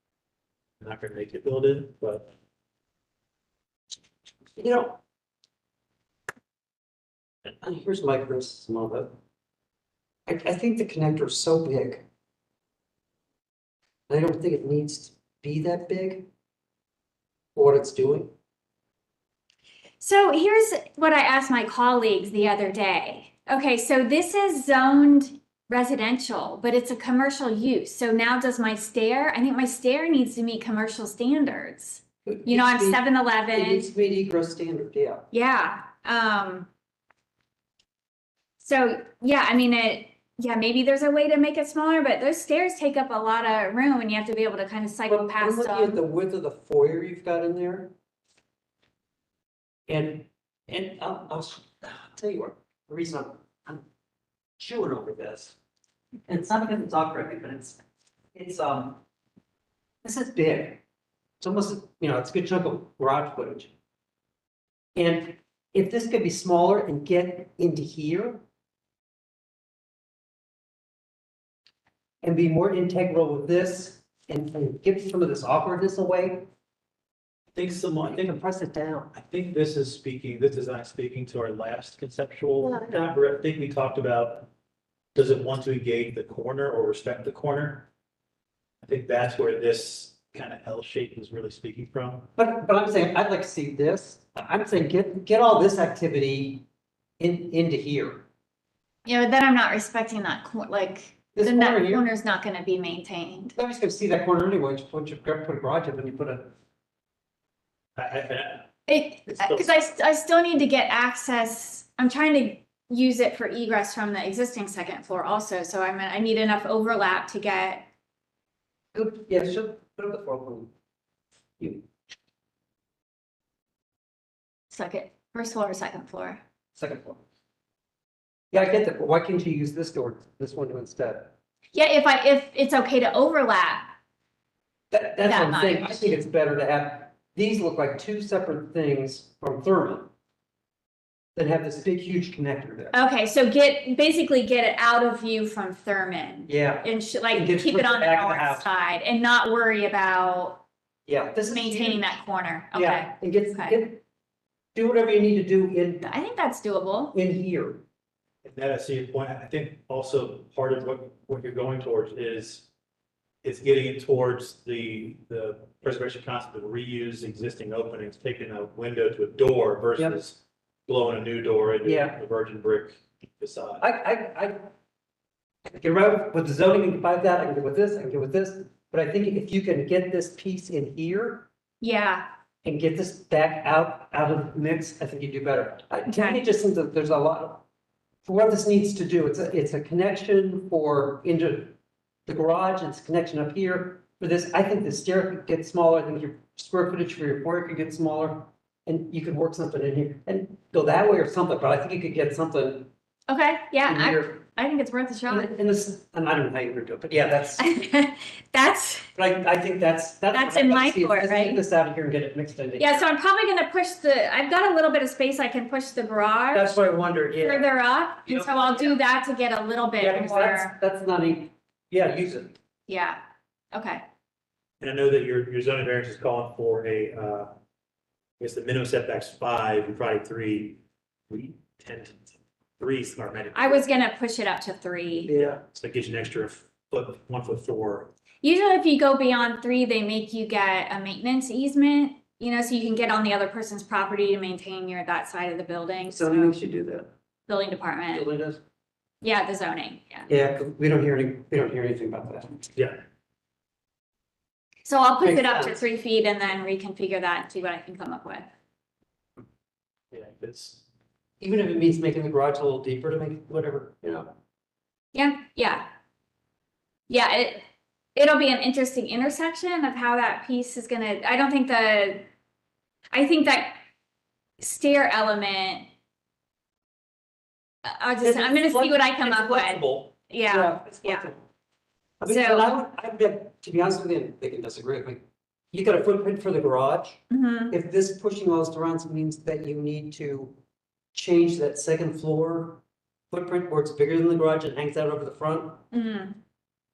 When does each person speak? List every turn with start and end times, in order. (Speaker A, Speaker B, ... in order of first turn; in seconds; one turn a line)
Speaker A: 0.8-2.3
Speaker B: 4.5-5.0
Speaker B: 7.4-9.1
Speaker B: 10.2-12.0
Speaker B: 14.1-16.3
Speaker B: 17.5-18.3
Speaker C: 20.0-33.9
Speaker B: 32.2-35.3
Speaker C: 35.3-36.7
Speaker C: 38.6-46.0
Speaker B: 45.1-47.9
Speaker B: 49.9-53.8
Speaker B: 54.6-55.5
Speaker B: 56.3-57.8
Speaker B: 58.3-59.0
Speaker B: 60.0-60.8
Speaker B: 61.4-63.7
Speaker B: 64.9-68.4
Speaker B: 72.2-76.5
Speaker A: 77.5-78.4
Speaker B: 78.0-79.1
Speaker A: 79.1-84.5
Speaker B: 82.6-83.0
Speaker A: 85.1-87.9
Speaker A: 88.8-92.3
Speaker B: 92.4-96.6
Speaker B: 97.2-98.2
Speaker C: 99.0-103.5
Speaker B: 101.3-102.0
Speaker B: 103.5-106.5
Speaker A: 108.0-108.7
Speaker C: 108.9-117.9
Speaker A: 109.3-109.7
Speaker B: 118.9-120.7
Speaker B: 121.6-121.9
Speaker C: 124.7-126.4
Speaker B: 126.8-127.2
Speaker B: 128.5-131.3
Speaker C: 131.7-133.9
Speaker B: 134.9-140.1
Speaker C: 135.2-136.2
Speaker B: 141.3-142.9
Speaker C: 142.9-150.6
Speaker B: 146.5-148.6
Speaker B: 151.1-152.0
Speaker C: 151.5-153.8
Speaker B: 152.7-154.0
Speaker B: 154.7-156.1
Speaker C: 156.0-157.1
Speaker B: 157.1-157.8
Speaker A: 158.4-162.7
Speaker A: 163.4-173.8
Speaker B: 171.8-172.2
Speaker B: 173.8-174.7
Speaker B: 175.7-181.5
Speaker C: 181.8-182.2
Speaker B: 182.6-187.6
Speaker C: 186.1-186.4
Speaker B: 188.2-191.7
Speaker B: 192.2-202.9
Speaker C: 203.3-205.5
Speaker B: 203.8-204.4
Speaker B: 205.3-207.7
Speaker C: 207.6-209.1
Speaker B: 209.2-213.1
Speaker C: 210.3-211.6
Speaker C: 212.8-216.8
Speaker B: 216.5-217.7
Speaker C: 217.4-220.7
Speaker B: 218.2-218.9
Speaker B: 220.0-222.6
Speaker C: 222.9-223.2
Speaker C: 223.7-224.0
Speaker A: 224.8-227.5
Speaker A: 228.4-233.8
Speaker C: 233.5-235.3
Speaker B: 235.2-235.6
Speaker A: 235.6-238.1
Speaker C: 238.4-246.5
Speaker B: 246.1-247.1
Speaker C: 247.5-248.2
Speaker B: 248.1-248.6
Speaker C: 249.2-250.3
Speaker B: 250.3-252.7
Speaker A: 252.7-253.0
Speaker C: 254.8-258.4
Speaker B: 255.2-255.8
Speaker A: 260.1-260.8
Speaker B: 261.4-264.3
Speaker C: 265.1-265.9
Speaker C: 267.1-267.6
Speaker C: 268.1-272.2
Speaker C: 273.1-273.8
Speaker C: 274.6-275.9
Speaker C: 277.9-281.3
Speaker B: 278.2-281.4
Speaker B: 282.2-285.2
Speaker C: 282.3-282.7
Speaker B: 285.7-287.2
Speaker C: 287.3-287.7
Speaker B: 287.7-290.5
Speaker B: 291.1-292.8
Speaker B: 293.3-295.8
Speaker C: 295.9-296.4